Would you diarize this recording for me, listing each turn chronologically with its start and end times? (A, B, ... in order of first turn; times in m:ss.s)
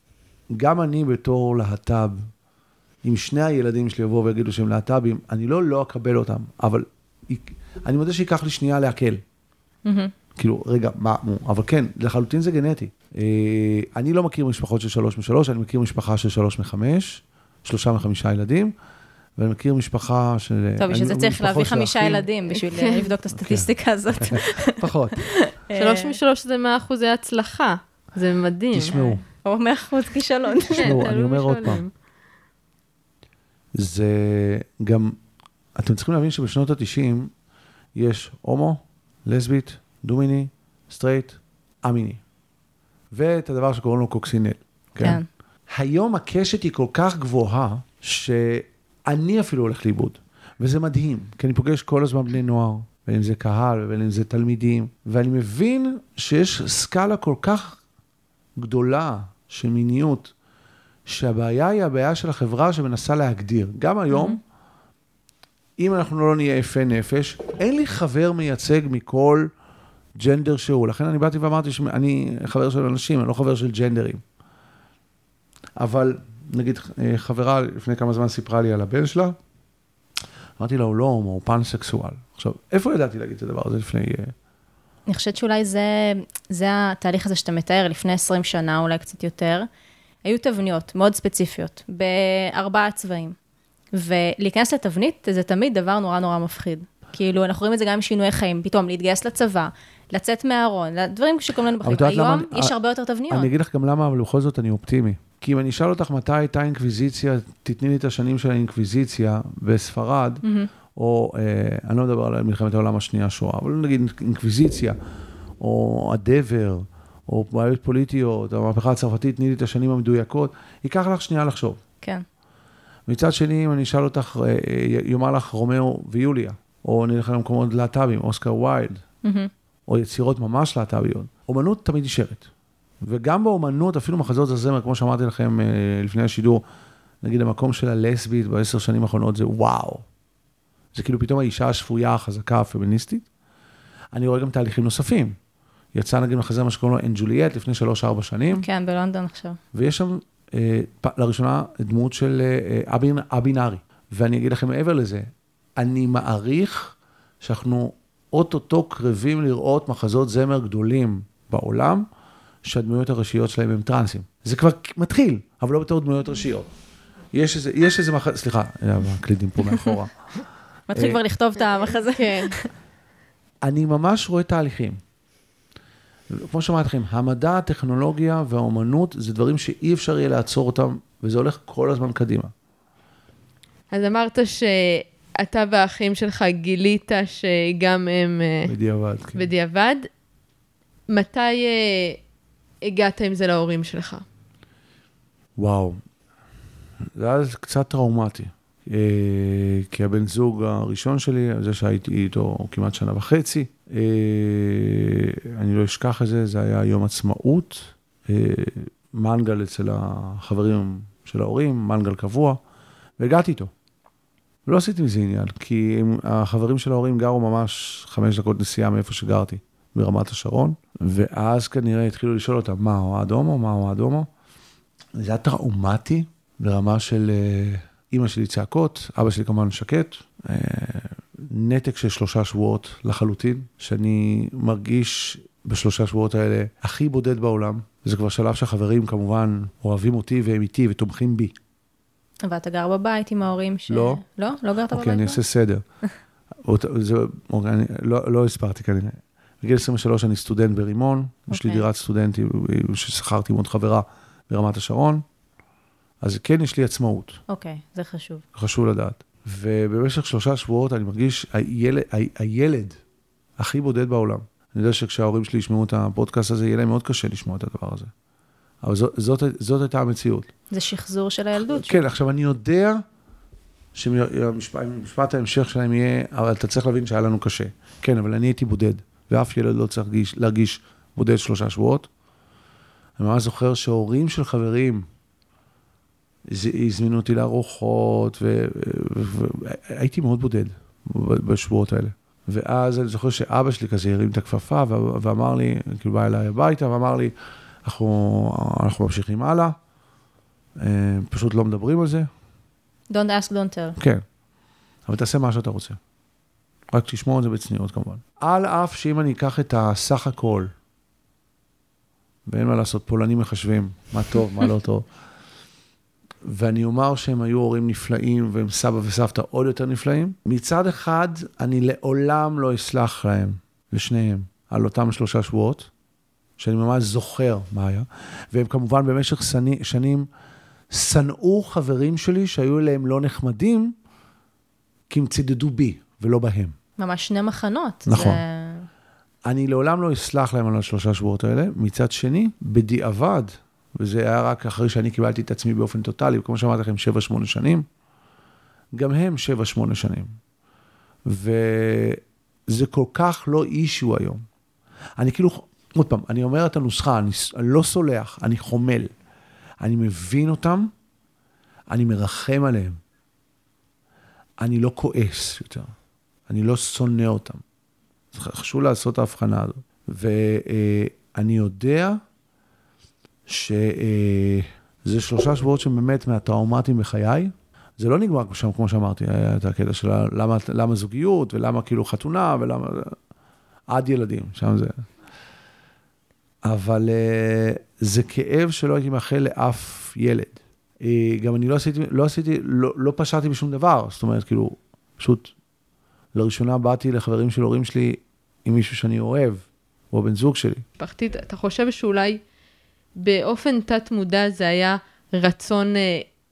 0:00.5-0:02.2 A
0:03.0-0:09.2 A
0:09.9-0:10.1 B
0:10.4-0:18.7 A
0:19.4-0:22.3 A
0:20.8-0:26.2 B
0:22.7-0:23.1 C
0:23.3-0:23.7 A
0:24.2-0:25.2 A
0:25.8-0:29.1 C
0:28.7-0:29.2 A
0:29.4-0:31.0 B
0:30.7-0:31.9 C
0:30.7-0:31.8 A
0:33.8-0:35.2 A
0:35.8-0:37.3 A
0:38.0-0:42.2 A
0:43.1-0:57.8 A
0:45.0-0:45.3 B
0:58.6-1:00.3 A
1:01.1-1:04.4 A
1:04.1-1:04.4 B
1:05.8-1:09.5 A
1:10.2-1:14.2 A
1:15.8-1:19.4 A
1:20.6-1:24.3 A
1:25.1-1:29.7 B
1:30.2-1:33.4 B
1:33.9-1:43.5 B
1:41.8-1:42.7 A
1:43.3-1:50.4 A
1:50.4-1:50.7 B
1:51.0-1:55.0 A
1:55.6-2:01.8 A
2:03.1-2:09.0 A
2:09.2-2:09.5 B
2:09.9-2:12.5 A
2:13.0-2:16.6 A
2:17.2-2:20.0 A
2:20.9-2:23.2 A
2:24.1-2:25.4 A
2:25.9-2:28.7 A
2:28.5-2:29.6 B
2:29.7-2:42.1 A
2:42.6-2:46.7 A
2:47.3-2:50.1 A
2:50.9-2:52.7 B
2:50.9-2:51.2 A
2:51.7-2:52.6 C
2:53.6-2:55.0 A
2:56.3-3:02.5 A
3:03.9-3:08.7 C
3:08.6-3:09.5 A
3:09.4-3:10.1 C
3:11.1-3:12.2 C
3:12.8-3:14.2 C
3:15.6-3:16.0 A
3:17.2-3:32.6 A
3:33.2-3:33.7 A
3:34.6-3:44.3 A
3:45.2-4:01.6 A
4:02.4-4:05.4 B
4:03.9-4:04.2 A
4:04.9-4:05.8 A
4:06.6-4:15.2 A
4:11.5-4:11.8 B
4:16.2-4:17.4 A
4:17.5-4:18.4 B
4:18.6-4:23.0 A
4:23.6-4:28.1 A
4:28.8-4:30.5 A
4:30.7-4:32.0 B
4:31.6-4:33.0 A
4:34.0-4:42.1 A
4:43.2-4:45.1 A
4:46.5-4:57.3 A
4:57.8-4:59.8 A
5:00.8-5:02.3 A
5:03.1-5:04.0 B
5:04.0-5:04.2 A
5:05.1-5:06.0 A
5:06.9-5:10.7 A
5:12.5-5:15.1 A
5:16.4-5:25.9 A
5:26.6-5:30.3 A
5:30.9-5:34.0 A
5:35.1-5:36.8 A
5:37.0-5:38.9 B
5:38.1-5:38.4 A
5:39.5-5:47.9 A
5:49.0-5:50.3 A
5:51.3-5:54.4 A
5:55.2-5:59.1 A
5:59.8-6:00.9 A
6:01.9-6:03.0 A
6:04.6-6:05.9 A
6:06.5-6:07.6 A
6:08.3-6:12.2 A
6:13.5-6:23.2 A
6:23.9-6:25.0 A
6:26.6-6:35.5 A
6:36.3-6:40.8 A
6:41.0-6:42.4 C
6:43.2-6:46.2 C